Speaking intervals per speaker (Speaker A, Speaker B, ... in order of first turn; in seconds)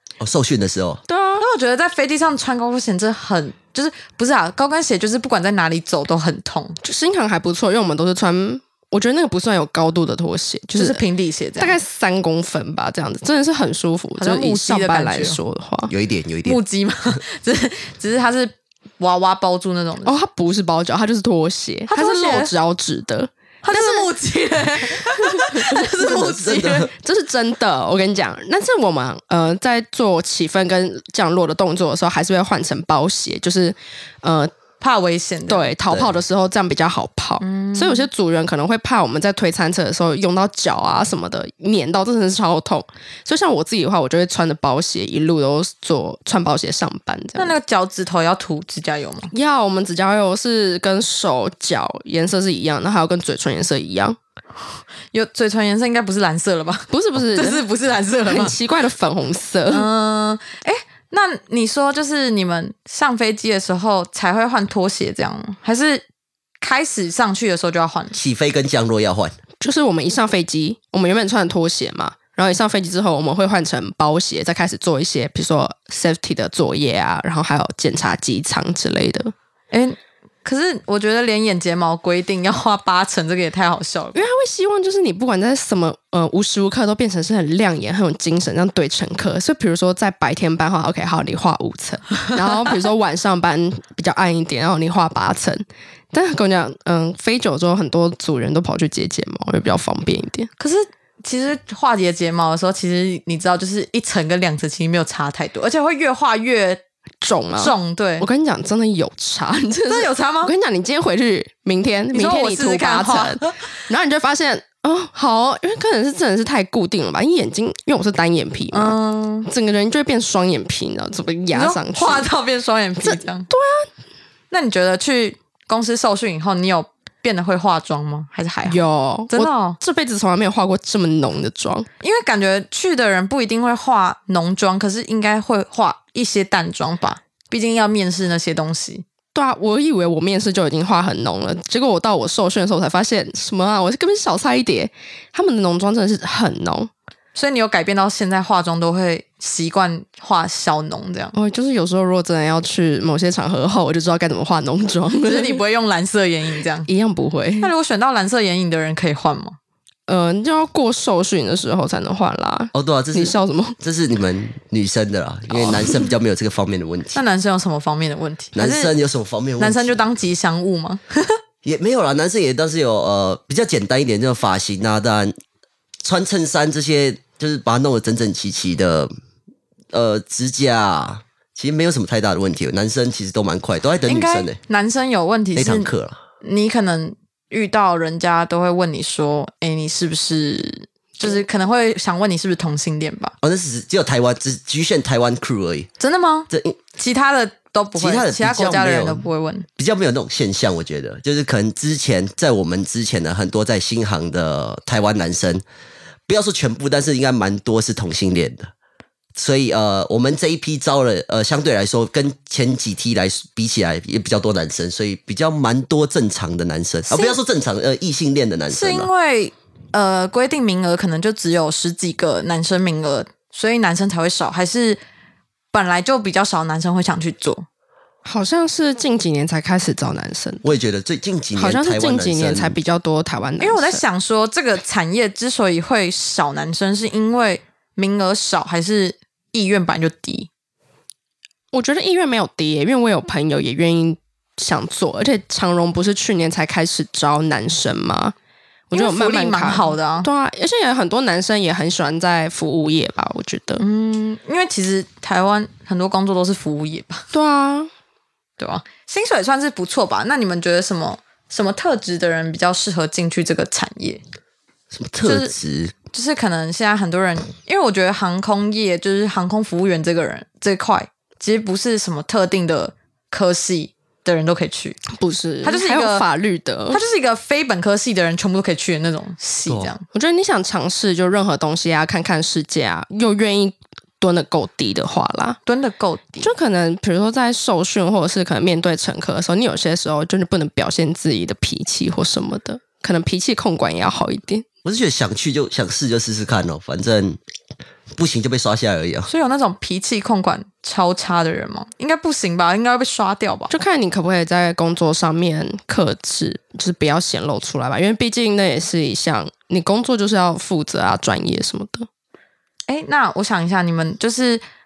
Speaker A: 0.2-1.0, 15.9-16.6, 26.0-26.9, 68.1-69.3, 162.7-167.2, 168.6-169.9, 171.6-175.3, 176.0-179.1, 179.9-184.6, 185.6-186.2, 193.4-195.9, 196.5-196.8, 197.9-199.2, 199.8-205.6, 206.3-208.7, 209.4-219.1, 230.6-232.8, 264.9-265.9, 279.7-279.9, 294.9-297.4, 298.1-299.3
Speaker B: 1.1-1.4, 6.8-11.0, 11.6-15.9, 20.1-24.1, 25.4-25.8, 26.9-34.5, 35.5-47.5, 49.3-54.2, 56.9-57.7, 58.3-59.9, 69.6-79.3, 84.2-100.5, 107.2-122.3, 123.0-123.9, 128.7-131.9, 139.3-146.9, 151.3-155.6, 156.9-157.7, 160.1-163.8, 165.6-166.0, 228.2-230.7, 231.6-234.0, 241.7-248.3, 248.9-253.8, 257.3-257.9, 275.1-277.0, 280.1-285.6, 286.4-294.7, 303.7-312.1
Speaker C: 1.4-6.8, 10.8-11.8, 14.2-15.4, 16.4-20.1, 21.9-22.5, 23.6-26.9, 34.8-35.7, 37.4-38.1, 47.4-49.3, 55.1-58.5, 59.7-66.0, 66.6-68.2, 79.7-84.2, 100.6-106.8, 107.6-108.3, 109.9-110.5, 112.1-113.7, 118.7-119.5, 121.5-123.5, 124.5-129.8, 132.0-139.1, 147.3-151.3, 155.2-156.9, 157.6-159.6, 167.1-168.9, 169.6-171.4, 184.1-185.9, 186.4-193.3, 196.0-199.7, 217.1-217.4, 218.7-225.0, 225.7-227.7, 233.6-240.5, 248.9-250.3, 253.8-257.3, 258.6-264.2, 265.2-265.5, 266.1-275.0, 275.6-276.2, 276.9-280.0, 285.7-286.5, 299.3-303.7, 312.9-314.6